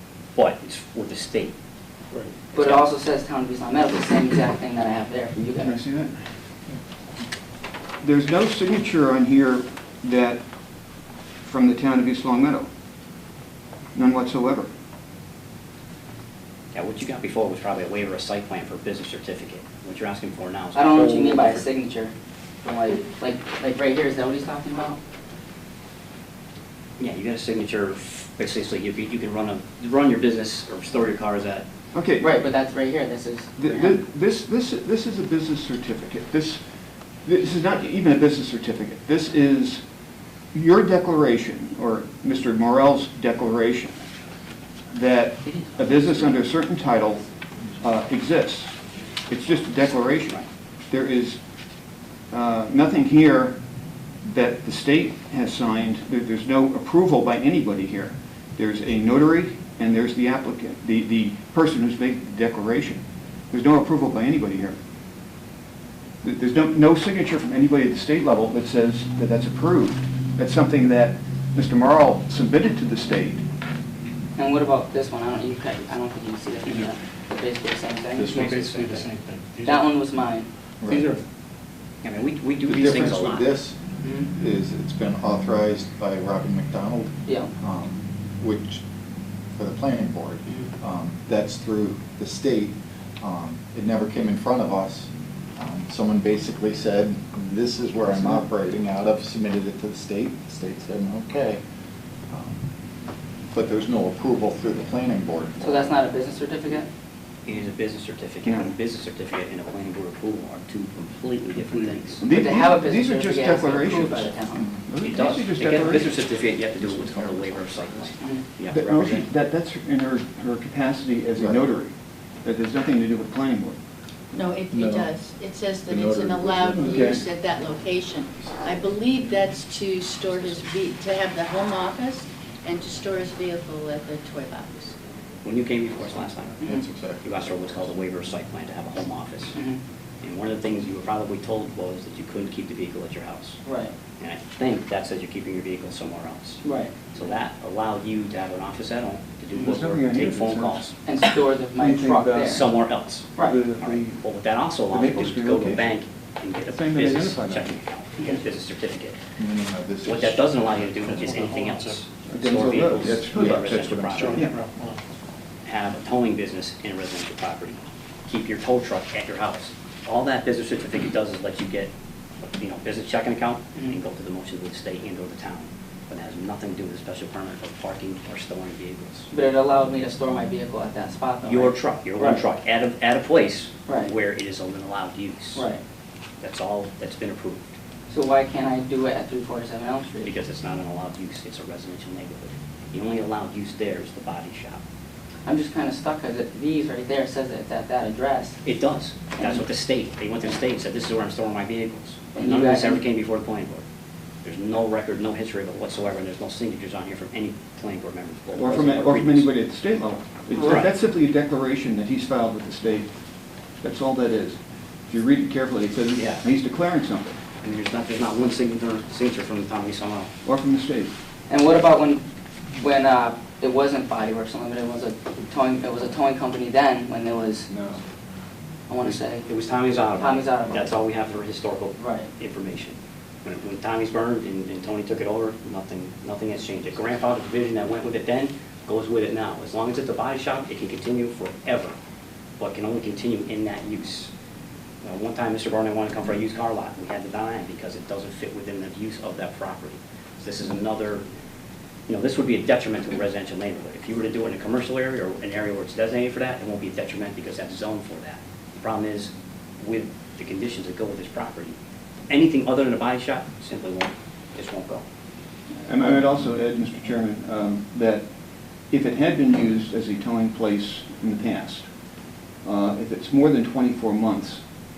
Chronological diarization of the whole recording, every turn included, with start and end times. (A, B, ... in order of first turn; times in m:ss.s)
0:00.4-0:01.5 A
0:02.5-0:02.8 A
0:02.6-0:05.8 B
0:05.6-0:06.3 C
0:08.0-0:10.4 C
0:11.4-0:12.7 C
0:13.9-0:14.7 C
0:16.7-0:21.7 A
0:20.8-0:25.0 B
0:27.0-0:31.7 A
0:31.9-0:32.4 C
0:32.2-0:34.0 B
0:33.6-0:36.6 C
0:37.2-0:39.8 C
0:40.5-0:44.0 C
0:44.9-0:47.2 C
0:47.8-0:48.8 C
0:49.3-0:51.4 C
0:52.3-0:53.6 C
0:54.2-1:04.8 C
1:06.2-1:13.4 C
1:14.4-1:18.4 B
1:18.2-1:19.9 D
1:18.2-1:19.1 A
1:19.6-1:21.2 B
1:20.8-1:21.1 E
1:22.0-1:23.6 A
1:22.7-1:23.8 E
1:24.0-1:24.3 B
1:24.3-1:28.8 E
1:29.6-1:41.6 E
1:42.3-1:42.6 E
1:43.5-1:46.0 E
1:45.6-1:46.9 B
1:47.5-1:52.3 A
1:48.4-1:48.8 C
1:52.2-1:54.4 C
1:52.2-1:54.7 B
1:54.6-1:54.9 E
1:54.9-1:56.2 C
1:55.0-1:59.3 A
1:56.6-1:58.2 E
1:58.7-2:03.8 C
2:04.3-2:15.0 F
2:04.7-2:05.1 E
2:05.9-2:07.2 E
2:06.7-2:07.3 C
2:15.4-2:16.6 A
2:16.2-2:18.1 E
2:17.2-2:19.6 A
2:19.5-2:19.8 B
2:20.2-2:23.6 A
2:23.7-2:23.9 B
2:24.2-2:30.9 A
2:26.6-2:26.9 B
2:29.5-2:31.0 C
2:31.0-2:32.7 B
2:31.8-2:32.8 C
2:32.4-2:39.2 A
2:33.4-2:34.2 C
2:34.9-2:35.9 C
2:36.7-2:37.8 C
2:39.4-2:40.5 E
2:40.0-2:44.5 A
2:40.8-2:42.1 D
2:42.3-2:44.6 C
2:44.2-2:45.0 D
2:45.6-2:51.9 A
2:52.4-2:59.3 A
2:59.3-3:02.4 B
3:01.4-3:05.7 A
3:03.9-3:04.1 B
3:05.6-3:05.8 B
3:06.4-3:07.7 A
3:08.1-3:10.3 B
3:10.2-3:14.8 A
3:15.4-3:18.6 B
3:18.6-3:23.8 A
3:19.4-3:19.6 B
3:22.4-3:23.1 B
3:24.4-3:29.5 A
3:28.6-3:33.1 C
3:30.6-3:30.9 A
3:33.8-3:37.4 C
3:36.1-3:36.5 A
3:37.6-3:40.3 A
3:40.4-3:41.1 C
3:41.5-3:47.9 B
3:48.9-3:49.5 B
3:49.4-4:02.0 A
3:50.2-3:51.0 B
3:52.0-3:52.3 B
4:02.6-4:04.3 A
4:05.0-4:11.2 A
4:12.1-4:21.8 A
4:22.3-4:25.0 A
4:25.8-4:28.3 C
4:28.9-4:31.9 C
4:32.6-4:34.7 C